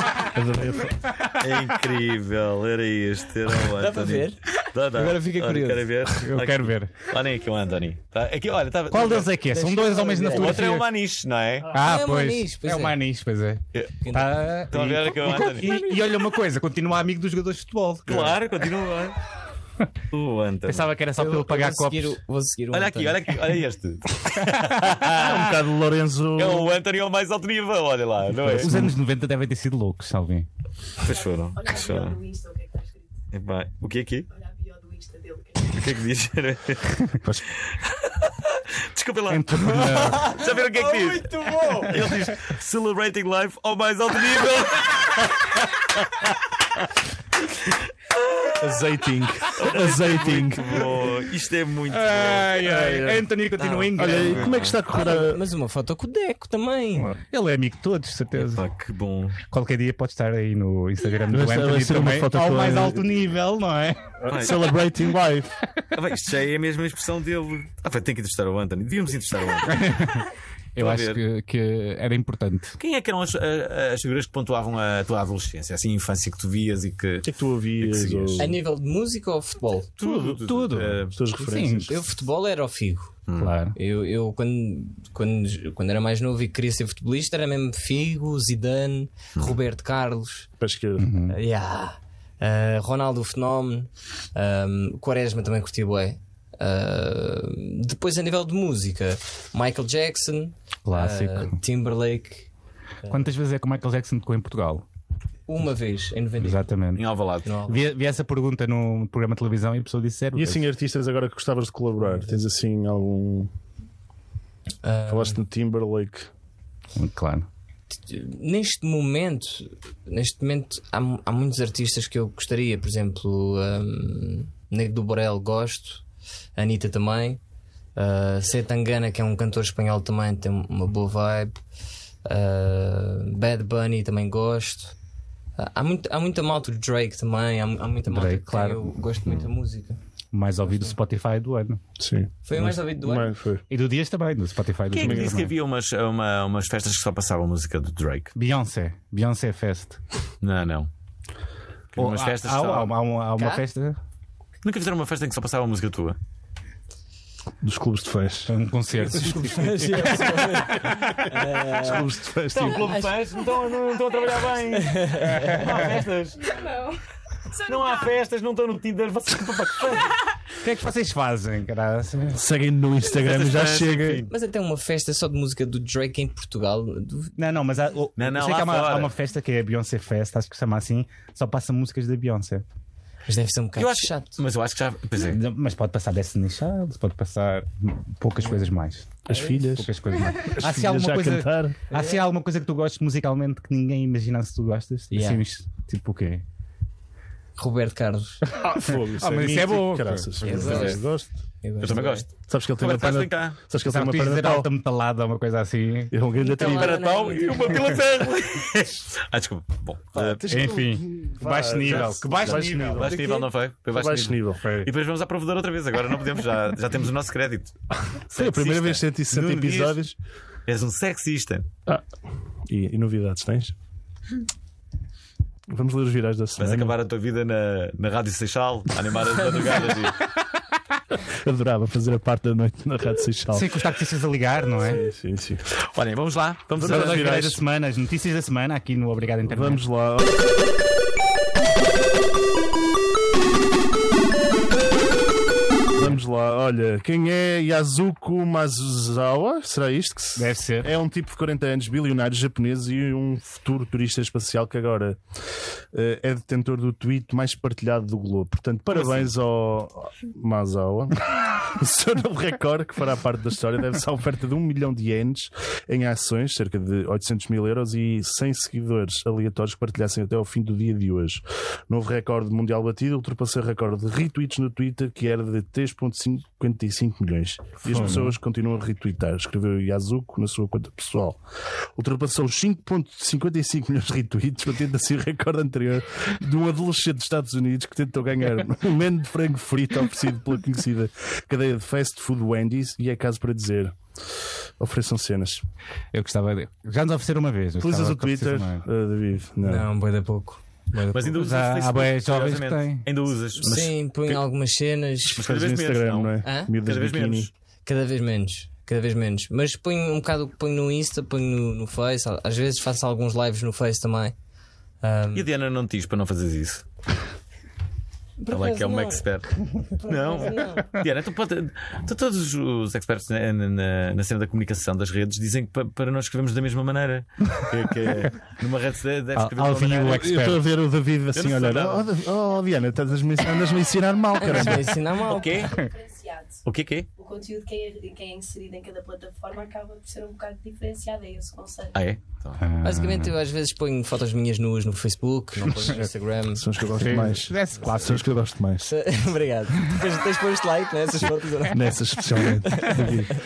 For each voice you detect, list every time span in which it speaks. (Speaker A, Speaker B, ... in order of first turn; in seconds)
Speaker A: 0.3-1.0, 25.0-26.8, 28.4-28.9, 48.6-50.9, 52.6-53.3, 53.9-55.4, 61.3-63.1, 64.2-65.5, 77.2-78.5, 81.1-82.0, 90.6-91.1, 110.3-113.5, 115.1-116.3, 142.0-143.6, 145.0-145.4, 157.6-158.6, 159.1-160.6, 161.4-162.9, 172.3-174.3, 189.3-191.8, 198.6-201.3, 202.5-204.7, 206.1-207.0, 210.1-213.4, 213.9-214.6, 218.1-220.1, 222.7-223.7, 225.7-226.9, 231.4-233.7, 234.8-235.6, 236.8-237.6, 239.5-240.4, 245.9-255.2, 255.9-281.4, 281.9-294.0, 294.8-295.6, 297.8-299.9, 305.4-307.5, 330.1-335.1, 346.6-348.9, 351.7-353.3
Speaker B: 1.2-9.3, 10.3-11.7, 14.7-15.8, 18.1-19.2, 20.1-20.9, 22.7-25.6, 26.3-28.8, 31.0-32.2, 33.3-34.3, 35.6-46.3, 48.1-48.8, 49.5-52.6, 53.6-54.8, 58.4-59.4, 64.3-64.7, 65.9-70.2, 70.8-71.2, 72.8-78.5, 80.0-81.2, 83.3-83.5, 106.9-107.5, 144.9-148.3, 150.4-150.9, 151.9-152.9, 154.6-156.2, 162.5-166.6, 167.6-170.2, 173.0-174.3, 178.2-179.1, 183.8-185.4, 200.6-201.0, 201.8-203.6, 206.6-210.4, 212.9-217.7, 218.3-220.0, 220.7-221.7, 226.6-230.2, 235.8-237.5, 258.9-259.3, 301.1-304.4, 305.3-307.5, 315.3-316.8, 318.5-330.4, 331.3-332.1, 335.3-335.8, 336.6-337.1, 341.9-342.6
Speaker C: 3.7-5.9, 9.5-10.6, 11.7-13.0, 14.0-14.3, 15.4-15.9, 21.1-23.2, 54.9-57.1, 78.4-79.9, 81.9-83.2, 83.7-90.5, 91.3-102.5, 105.5-106.6, 107.4-107.9, 114.8-115.4, 117.9-126.0, 126.6-127.4, 128.0-131.6, 132.2-134.9, 135.6-140.0, 142.4-143.3, 153.4-153.6, 159.0-162.1, 162.6-163.1, 164.7-165.6, 174.3-177.4, 183.3-184.4, 189.3-189.6, 191.9-192.2, 195.1-195.4, 197.6-198.4, 200.4-201.0, 201.6-202.3, 206.4-207.9, 213.0-213.5, 299.6-301.3, 303.6-305.4, 306.4-306.7, 307.8-314.3, 315.0-315.5, 318.4-319.3, 319.8-320.9, 334.4-335.6, 342.8-346.6, 348.8-353.2
Speaker D: 6.2-7.0, 8.9-10.9, 11.7-18.4, 20.6-22.2, 28.5-30.5, 39.3-40.4, 41.8-42.2, 51.9-54.5, 57.1-58.6, 59.4-64.1, 69.7-72.8, 80.0-82.0, 83.3-83.8, 91.0-91.4, 100.8-101.6, 103.1-104.8, 106.4-107.0, 107.7-110.7, 117.0-117.5, 138.1-139.0, 140.3-141.8, 143.7-145.5, 148.3-150.0, 151.9-154.0, 158.5-161.0, 165.4-165.7, 170.6-172.4, 177.4-182.6, 185.2-196.4, 198.8-200.9, 203.8-206.1, 210.4-213.1, 214.6-214.9, 233.5-235.0, 236.8-239.8, 250.4-250.9, 277.8-278.4, 296.1-298.8, 301.3-303.1, 329.4-330.6, 342.6-343.3, 345.7-346.0, 346.9-348.3
Speaker E: 31.0-33.1, 34.3-36.0, 335.3-336.6, 337.1-342.0